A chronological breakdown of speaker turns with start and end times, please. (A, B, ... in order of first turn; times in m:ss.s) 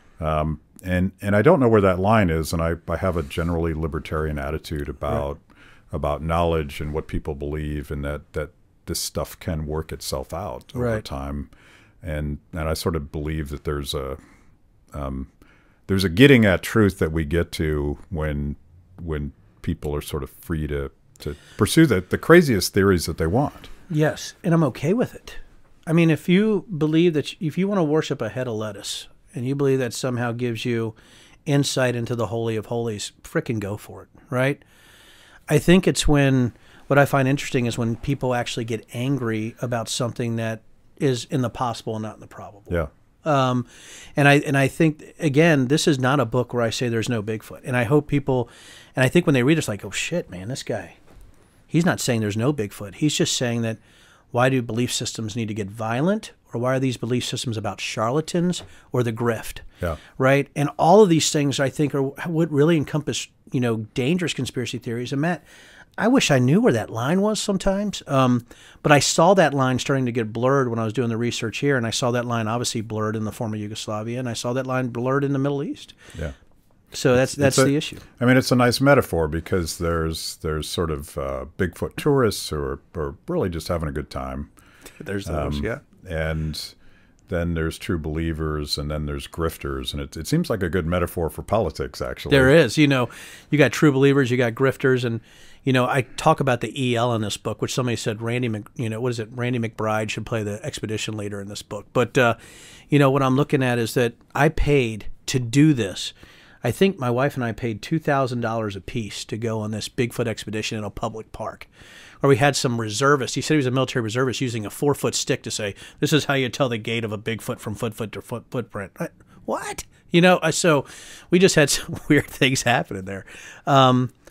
0:00.2-0:11.5 A
0:10.7-0:11.0 B
0:12.0-0:14.2 A
0:14.9-0:15.3 A
0:15.9-0:23.7 A
0:23.9-0:34.6 B
0:35.5-0:51.0 B
0:51.7-0:53.8 B
0:54.3-0:59.6 B
1:00.2-1:05.4 B
1:06.0-1:16.0 B
1:16.9-1:18.0 B
1:17.1-1:24.5 A
1:25.0-1:25.8 B
1:25.2-1:26.7 A
1:27.3-1:32.5 A
1:32.3-1:42.4 B
1:42.9-1:51.7 B
1:52.2-2:04.1 B